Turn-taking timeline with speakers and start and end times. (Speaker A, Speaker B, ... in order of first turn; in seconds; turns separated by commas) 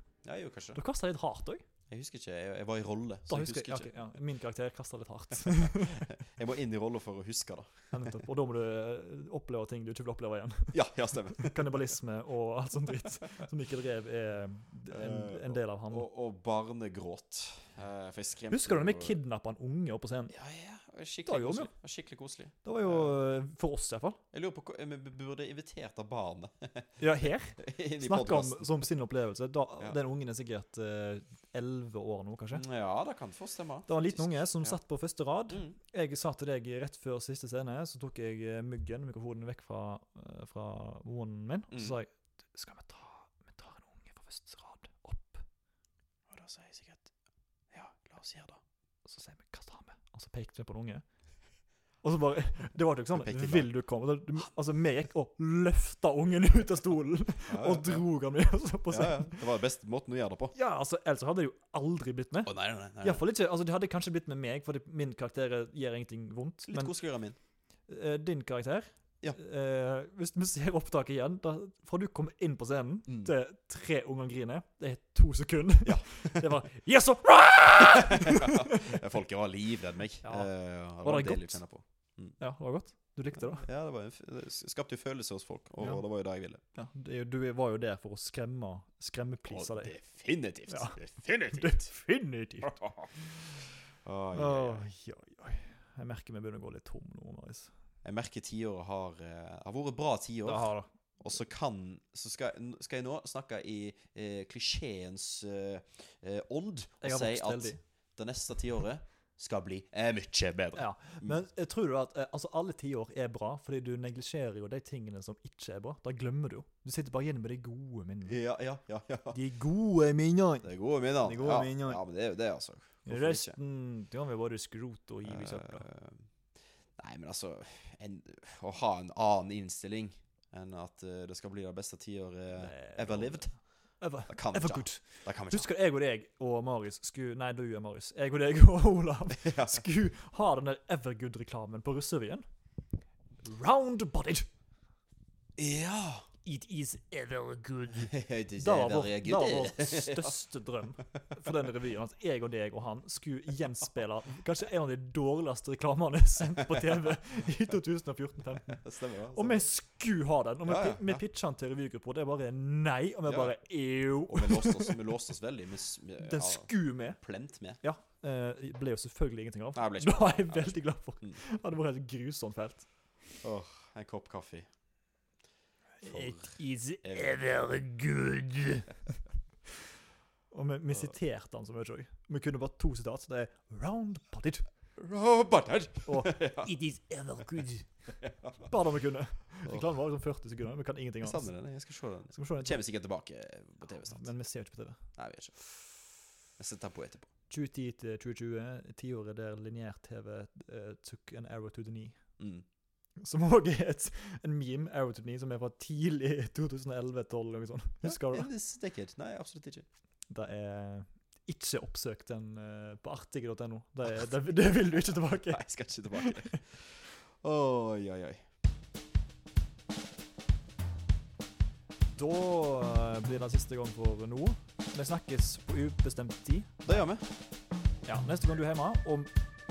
Speaker A: 0.2-0.8, Speaker B: 0.7-1.6, Speaker A: 1.9-3.9, Speaker B: 3.3-6.2, Speaker A: 5.5-8.1, Speaker B: 7.9-16.1, Speaker A: 10.7-11.8, Speaker A: 14.9-19.1, Speaker B: 18.5-20.3, Speaker A: 20.3-23.1, Speaker B: 21.2-21.7, Speaker B: 22.6-24.2, Speaker A: 24.3-27.0, Speaker B: 27.0-32.6, Speaker A: 27.6-28.9, Speaker A: 32.5-34.8, Speaker B: 33.9-45.4, Speaker A: 35.5-35.8, Speaker A: 41.7-42.0, Speaker A: 46.3-47.1, Speaker A: 47.7-48.6, Speaker B: 49.0-51.0, Speaker B: 52.0-59.4, Speaker A: 53.1-53.7, Speaker A: 57.5-58.0, Speaker A: 58.9-60.5, Speaker B: 60.5-67.0, Speaker A: 62.5-63.2, Speaker A: 66.7-67.4, Speaker B: 67.9-79.0, Speaker A: 73.1-73.3, Speaker A: 75.8-76.5, Speaker A: 77.8-82.4, Speaker B: 80.2-81.6, Speaker B: 82.4-83.7, Speaker A: 83.3-86.6, Speaker B: 86.7-89.9, Speaker A: 89.5-91.9, Speaker B: 90.7-93.4, Speaker A: 92.6-93.1, Speaker A: 94.0-94.9, Speaker B: 94.3-97.7, Speaker A: 98.0-100.7, Speaker B: 100.4-100.9, Speaker A: 101.2-111.4, Speaker B: 107.0-107.8, Speaker B: 110.7-118.4, Speaker A: 118.3-119.4, Speaker B: 119.3-122.0, Speaker A: 120.6-123.6, Speaker B: 123.0-125.8, Speaker A: 125.2-126.3, Speaker A: 127.0-133.5, Speaker B: 132.5-142.4, Speaker A: 134.3-135.7, Speaker A: 139.4-139.8, Speaker B: 143.4-144.5, Speaker A: 145.6-146.3, Speaker B: 146.4-165.0, Speaker A: 147.9-150.4, Speaker A: 156.6-157.0, Speaker A: 158.7-159.7, Speaker A: 160.6-161.2, Speaker A: 163.2-163.5, Speaker A: 164.3-167.8, Speaker B: 166.2-167.2, Speaker B: 167.8-172.9, Speaker A: 169.7-171.4, Speaker A: 173.4-174.7, Speaker B: 176.0-179.2, Speaker A: 176.1-177.4, Speaker B: 180.5-184.7, Speaker A: 185.0-186.7, Speaker B: 186.1-191.5, Speaker A: 188.2-188.7, Speaker A: 191.2-194.3, Speaker B: 192.3-192.8, Speaker B: 194.1-195.0, Speaker A: 195.2-195.7, Speaker A: 196.6-197.3, Speaker B: 197.5-202.2, Speaker A: 202.4-202.6, Speaker B: 203.2-208.5, Speaker A: 208.0-209.8, Speaker B: 210.3-216.6, Speaker A: 214.1-218.4, Speaker B: 222.1-227.1, Speaker A: 226.8-227.3, Speaker B: 228.0-229.3